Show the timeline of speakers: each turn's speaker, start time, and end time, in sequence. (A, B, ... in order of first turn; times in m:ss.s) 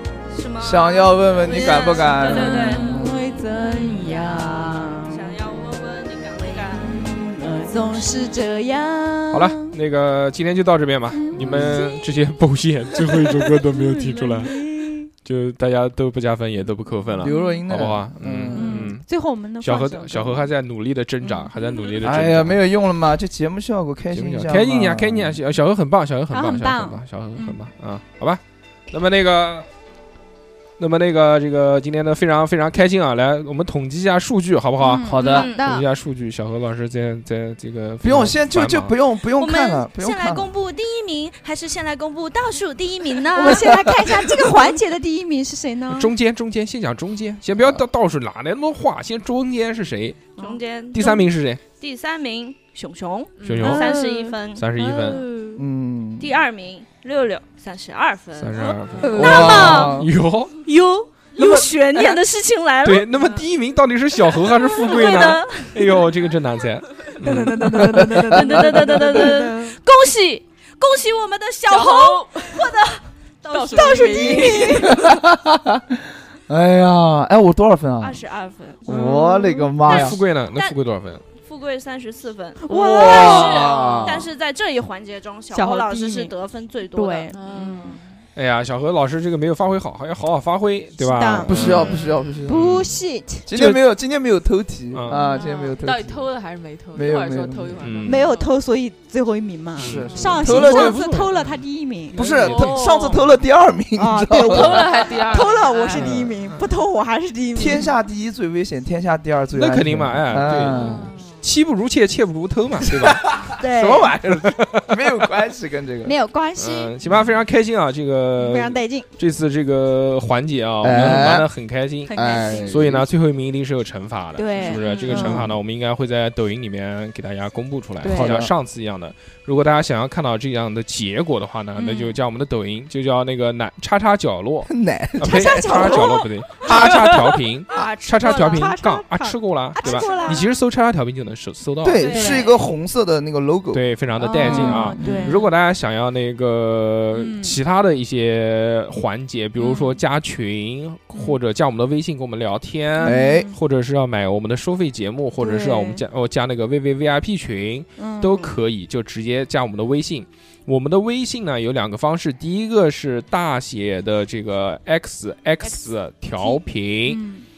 0:00.3-0:03.1 A
0:00.6-0:03.2 B
0:02.0-0:05.3 C
0:05.0-0:07.0 A
0:06.4-0:09.7 C
0:08.0-0:08.4 A
0:09.3-0:14.6 D
0:11.1-0:12.2 C
0:11.4-0:11.8 B
0:12.9-0:15.1 C
0:15.1-0:19.1 D
0:17.2-0:18.9 B
0:17.2-0:17.6 C
0:18.5-0:20.5 C
0:19.6-0:22.6 D
0:21.2-0:21.5 C
0:22.0-0:25.4 B
0:24.1-0:29.7 D
0:26.3-0:27.0 C
0:30.8-0:38.9 D
0:34.8-0:35.9 C
0:35.0-0:35.5 B
0:35.3-0:35.7 A
0:38.0-0:40.5 B
0:39.4-0:44.4 A
0:43.3-0:46.1 C
0:45.9-0:50.2 D
0:50.4-0:55.6 A
0:50.9-0:51.6 D
0:53.4-0:53.7 E
0:53.4-0:53.9 D
0:53.6-0:55.3 C
0:54.5-0:55.2 D
0:55.6-0:56.3 B
0:56.2-1:00.0 A
0:58.4-1:00.6 D
0:59.0-0:59.6 C
0:59.1-1:00.1 B
1:00.7-1:03.4 A
1:01.4-1:01.7 B
1:02.8-1:08.2 D
1:04.2-1:06.0 A
1:07.2-1:09.8 C
1:07.6-1:08.4 B
1:08.3-1:15.1 A
1:11.7-1:12.7 E
1:13.5-1:14.9 E
1:13.7-1:15.1 C
1:15.1-1:16.0 B
1:16.5-1:18.2 B
1:18.0-1:18.9 A
1:18.8-1:20.2 B
1:18.9-1:19.7 C
1:19.8-1:21.2 D
1:20.5-1:20.8 A
1:21.3-1:27.3 A
1:22.6-1:23.7 C
1:22.8-1:24.3 B
1:22.8-1:24.0 E
1:25.5-1:26.3 C
1:26.9-1:28.0 C
1:27.3-1:28.1 E
1:28.4-1:32.9 D
1:31.0-1:31.9 C
1:31.4-1:32.8 B
1:31.6-1:32.3 E
1:32.4-1:33.5 C
1:33.5-1:36.3 B
1:33.5-1:33.8 D
1:34.9-1:35.2 D
1:35.1-1:38.5 E
1:36.9-1:37.9 B
1:37.8-1:38.3 D
1:38.0-1:42.2 C
1:39.8-1:41.3 B
1:39.8-1:41.4 D
1:42.1-1:45.1 B
1:42.1-1:42.9 D
1:42.2-1:43.4 E
1:44.0-1:47.9 C
1:44.4-1:46.2 E
1:45.9-1:46.6 D
1:47.6-1:51.1 B
1:49.6-1:53.5 D
1:50.7-1:51.4 E
1:52.8-1:56.2 B
1:53.6-1:54.2 C
1:54.2-1:55.2 D
1:56.0-1:56.9 C
1:56.6-2:22.3 D
1:58.4-1:59.1 C
2:00.8-2:01.5 B
2:02.1-2:02.7 C
2:02.1-2:03.1 B
2:02.3-2:02.6 E
2:04.4-2:05.4 C
2:04.7-2:05.3 E
2:05.0-2:05.6 B
2:08.0-2:08.4 C
2:08.0-2:08.5 B
2:11.8-2:12.2 C
2:14.7-2:16.1 B
2:15.2-2:17.2 C
2:17.7-2:18.8 A
2:17.8-2:20.5 C
2:19.8-2:20.6 A
2:21.8-2:25.4 B
2:22.0-2:22.6 A
2:22.0-2:22.5 C
2:23.7-2:47.2 D
2:24.2-2:25.5 C
2:27.1-2:27.6 C
2:33.0-2:33.6 C
2:33.0-2:33.5 B
2:35.4-2:36.0 C
2:38.0-2:38.6 C
2:46.4-2:47.5 C